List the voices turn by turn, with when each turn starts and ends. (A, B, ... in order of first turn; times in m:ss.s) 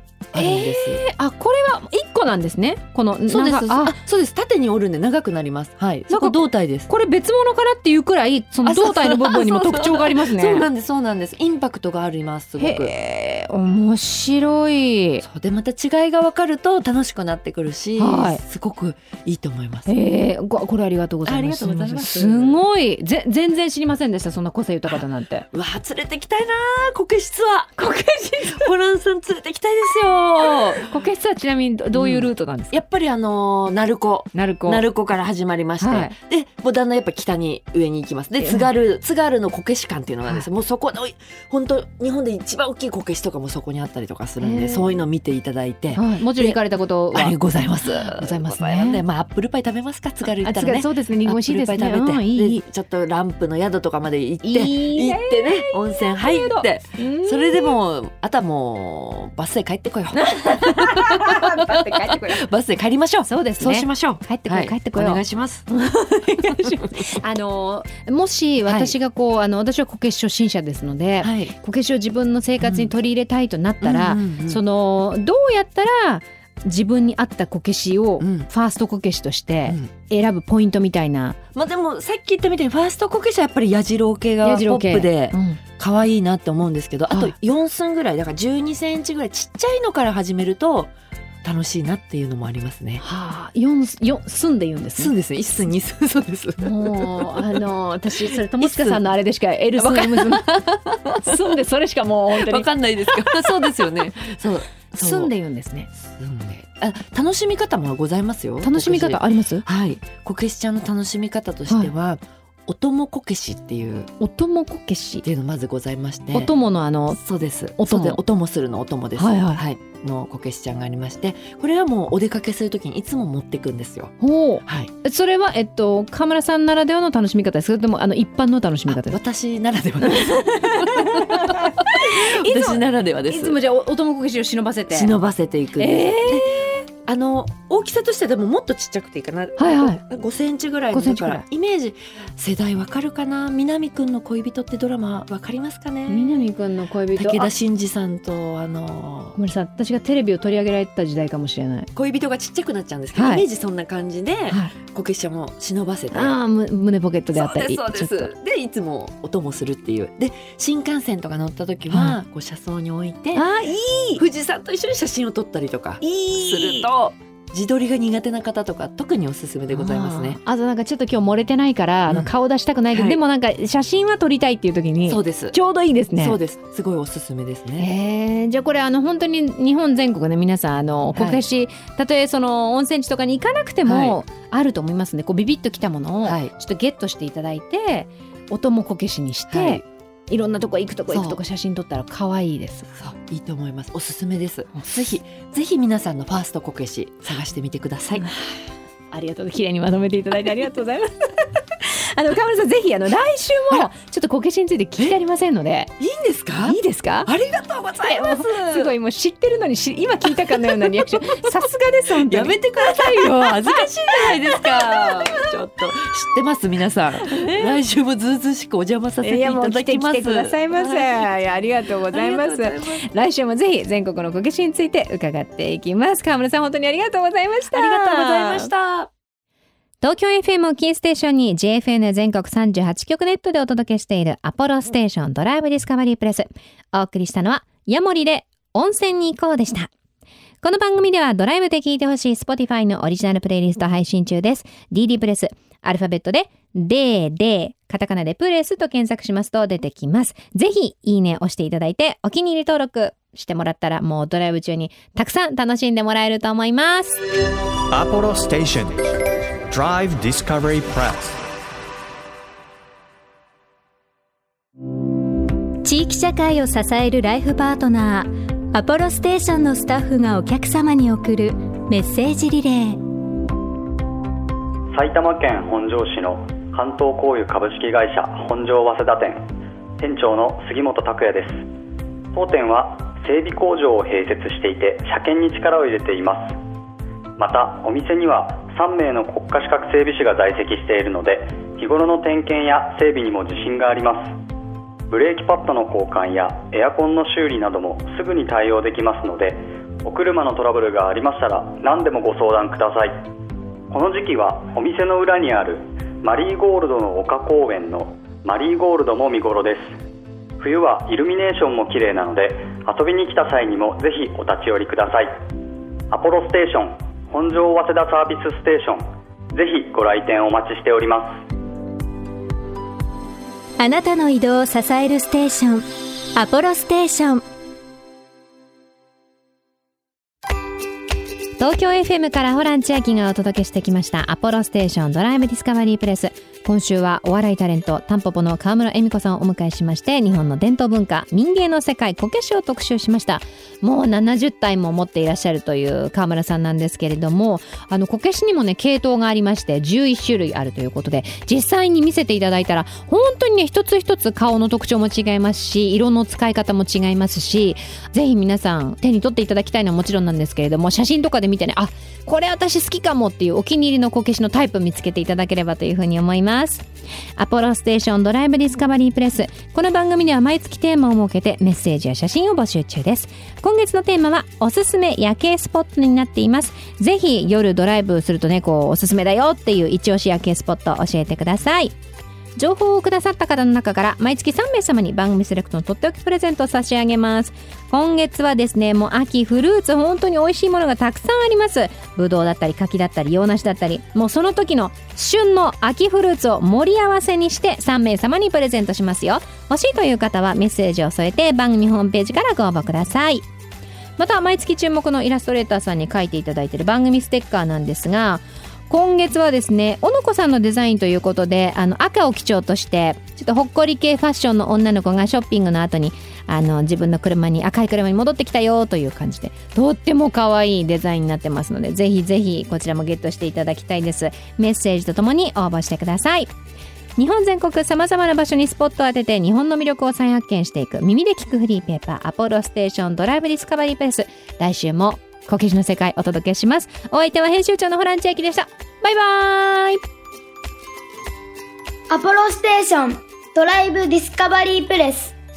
0:00.3-0:01.0 A
0:00.3-0:04.0 B
0:03.3-0:06.9 A
0:06.1-0:10.7 B
0:08.6-0:13.0 A
0:12.6-0:15.2 B
0:15.2-0:20.0 A
0:18.0-0:18.4 B
0:19.9-0:25.5 B
0:21.2-0:22.6 A
0:24.9-0:27.8 A
0:27.8-0:28.7 B
0:28.4-0:31.0 A
0:30.7-0:32.8 B
0:31.9-0:46.6 A
0:34.3-0:34.9 B
0:35.8-0:36.2 B
0:38.4-0:38.7 B
0:44.4-0:45.0 B
0:45.9-0:49.0 B
0:47.1-1:05.7 A
0:50.4-0:52.6 B
0:54.4-0:57.8 B
1:00.2-1:02.4 B
1:03.3-1:21.4 B
1:08.7-1:09.0 A
1:11.2-1:11.5 A
1:12.6-1:12.9 A
1:13.8-1:14.6 A
1:18.2-1:18.5 A
1:21.6-1:30.9 A
1:24.4-1:25.6 B
1:31.4-1:33.0 A
1:33.0-1:35.1 B
1:35.0-1:39.1 A
1:36.6-1:40.5 B
1:39.8-1:41.6 A
1:41.1-1:43.8 B
1:42.3-1:45.3 A
1:44.9-1:45.9 B
1:46.0-1:54.1 A
1:48.6-1:49.6 B
1:54.2-1:55.2 B
1:55.2-1:56.5 A
1:56.3-1:57.2 B
1:57.1-2:04.9 A
1:57.8-1:58.2 B
1:59.2-1:59.6 B
2:04.2-2:09.2 B
2:08.9-2:13.6 A
2:10.0-2:15.1 B
2:14.9-2:26.5 A
2:15.8-2:16.8 B
2:19.6-2:20.0 B
2:20.9-2:21.4 B
2:26.1-2:27.5 B
2:27.2-2:29.4 A
2:29.4-2:31.9 B
2:31.9-2:36.4 A
2:33.2-2:33.5 B
2:36.1-2:38.3 B
2:37.3-2:43.5 A
2:41.9-2:42.2 B
2:43.4-2:44.2 B
2:44.2-2:50.4 A
2:46.0-2:46.9 B
2:49.7-2:56.4 B
2:52.9-2:53.2 A
2:55.0-2:55.6 A
2:56.1-2:57.9 A
2:57.8-3:12.9 B
3:01.1-3:01.4 A
3:03.9-3:04.2 A
3:06.2-3:06.5 A
3:09.5-3:09.8 A
3:11.1-3:11.4 A
3:12.9-3:18.3 A
3:18.2-3:18.6 B
3:19.1-3:25.9 B
3:26.0-3:29.0 A
3:26.6-3:27.3 B
3:28.1-3:35.2 B
3:30.4-3:31.4 A
3:32.1-3:43.0 A
3:37.3-3:37.8 B
3:39.2-3:48.7 B
3:47.7-3:49.1 A
3:50.0-3:59.9 B
4:00.6-4:17.2 B
4:17.9-4:19.1 C
4:19.7-4:21.4 C
4:25.8-4:33.0 D
4:34.9-4:39.4 E
4:40.0-4:41.6 E
4:42.3-4:46.6 E
4:47.4-4:54.3 E
4:55.1-5:03.1 E
5:03.9-5:09.9 E
5:10.6-5:15.3 E
5:16.1-5:19.0 E
5:19.5-5:21.3 E
5:23.8-5:27.4 D
5:31.6-6:06.8 B
6:07.4-6:22.0 B
6:22.6-6:43.5 B
6:44.2-7:06.5 B
7:07.2-7:20.0 B
7:22.1-7:25.4 F